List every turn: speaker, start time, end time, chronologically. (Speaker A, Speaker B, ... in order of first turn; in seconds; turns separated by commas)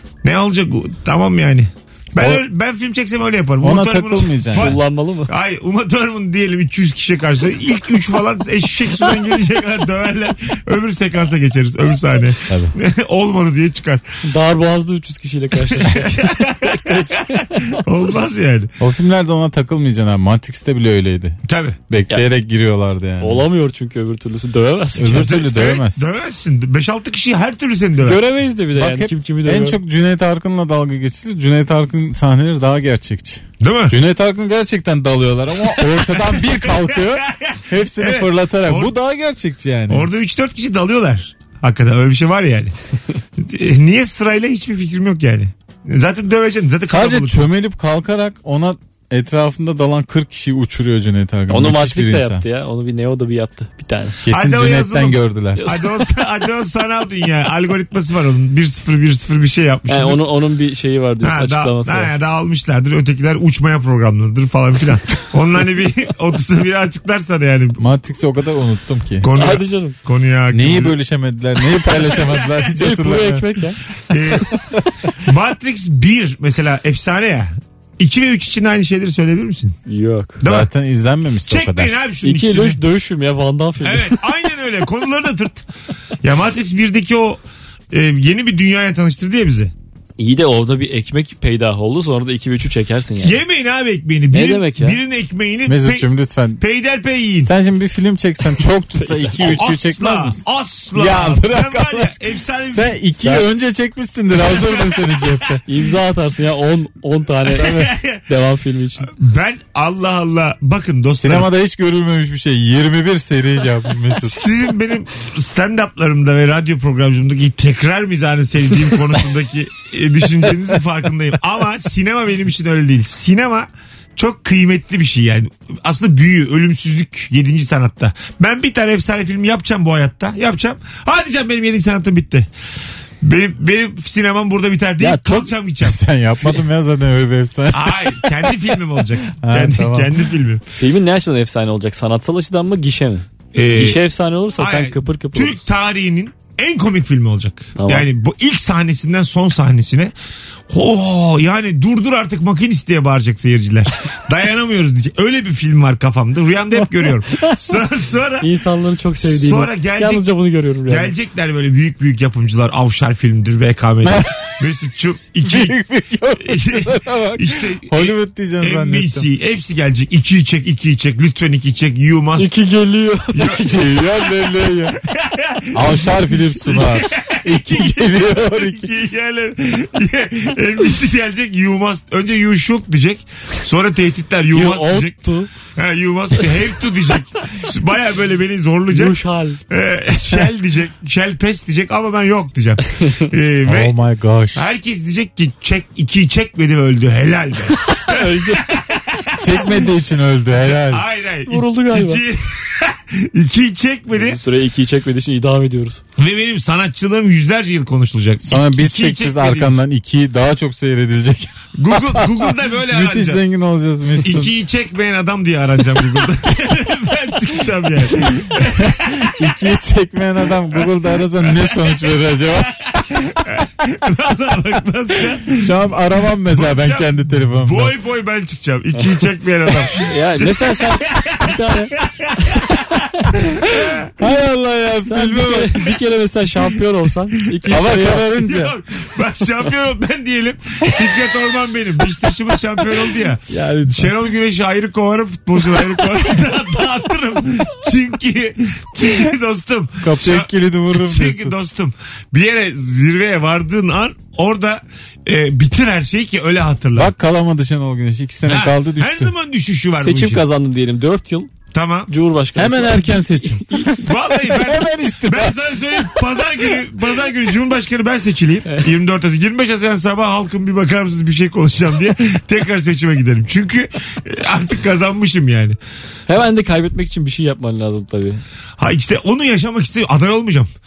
Speaker A: 0.2-14.0, Speaker B: 3.6-4.7, Speaker C: 4.5-5.3, Speaker B: 12.5-12.7, Speaker C: 14.2-17.8, Speaker A: 15.7-18.7, Speaker B: 18.8-23.5, Speaker A: 21.5-21.8, Speaker C: 23.2-25.5, Speaker B: 24.9-26.1, Speaker A: 25.4-28.2, Speaker C: 28.0-29.8, Speaker B: 28.8-40.1, Speaker A: 33.6-34.0, Speaker A: 35.8-38.9, Speaker A: 39.9-42.7, Speaker A: 43.4-47.5, Speaker B: 46.9-52.4, Speaker C: 51.5-54.2, Speaker B: 54.2-55.6, Speaker A: 54.3-60.2, Speaker C: 55.6-56.0, Speaker C: 59.9-62.1, Speaker A: 61.2-67.8, Speaker B: 67.8-69.3, Speaker A: 69.2-71.0, Speaker C: 69.3-70.0, Speaker B: 70.5-73.6, Speaker C: 72.8-73.8, Speaker A: 74.1-74.5, Speaker A: 75.2-79.8, Speaker C: 79.9-80.4, Speaker A: 80.4-80.7, Speaker B: 80.4-82.0, Speaker A: 81.5-82.8, Speaker C: 82.2-84.2, Speaker A: 83.8-85.7, Speaker A: 86.2-87.4, Speaker A: 87.9-89.7, Speaker C: 90.2-93.4, Speaker A: 93.2-96.0, Speaker C: 94.3-95.0, Speaker B: 95.7-96.6, Speaker A: 96.6-97.5, Speaker B: 97.4-100.4, Speaker C: 99.0-99.6, Speaker A: 99.4-103.4, Speaker B: 100.9-102.2, Speaker B: 102.7-105.6, Speaker A: 104.6-104.8, Speaker C: 105.7-109.1, Speaker A: 107.6-108.2, Speaker B: 107.6-107.9, Speaker A: 109.2-111.5, Speaker B: 111.1-114.4, Speaker A: 114.2-132.5, Speaker A: 133.2-136.0, Speaker C: 135.0-135.5, Speaker B: 135.8-138.6, Speaker A: 137.7-140.6, Speaker B: 139.3-140.2, Speaker C: 140.7-145.7, Speaker A: 143.5-144.0, Speaker A: 144.6-150.1, Speaker C: 147.8-148.1, Speaker A: 150.7-158.5, Speaker C: 156.7-157.6, Speaker C: 158.4-161.1, Speaker A: 159.2-160.2, Speaker A: 160.9-165.8, Speaker B: 164.0-164.5, Speaker B: 165.4-169.3, Speaker A: 166.4-172.5, Speaker C: 172.4-173.8, Speaker A: 173.3-173.7, Speaker B: 173.5-174.9, Speaker A: 174.9-185.1, Speaker B: 175.7-178.9, Speaker C: 184.5-185.5, Speaker A: 185.7-189.2, Speaker C: 188.9-189.6, Speaker A: 189.7-193.9, Speaker B: 193.7-194.7, Speaker A: 194.6-199.7, Speaker C: 198.0-198.8, Speaker B: 199.4-201.1, Speaker A: 200.6-204.4, Speaker C: 201.5-202.2, Speaker C: 204.1-206.0, Speaker A: 206.2-209.8, Speaker B: 208.4-214.5, Speaker A: 211.7-213.4, Speaker A: 214.2-219.3, Speaker B: 218.4-222.8, Speaker A: 221.5-221.8, Speaker A: 222.9-225.7, Speaker B: 225.6-227.9, Speaker A: 226.5-232.8, Speaker C: 229.9-232.7, Speaker A: 233.7-234.1, Speaker B: 234.2-235.7, Speaker C: 235.0-238.3, Speaker B: 237.7-238.7, Speaker A: 238.4-257.1, Speaker B: 243.5-244.1, Speaker B: 250.0-251.6, Speaker B: 256.9-259.3, Speaker A: 258.5-260.4, Speaker C: 260.0-264.0, Speaker A: 261.7-262.1, Speaker B: 262.6-266.0, Speaker A: 264.0-275.8, Speaker C: 276.3-278.4, Speaker A: 278.8-280.7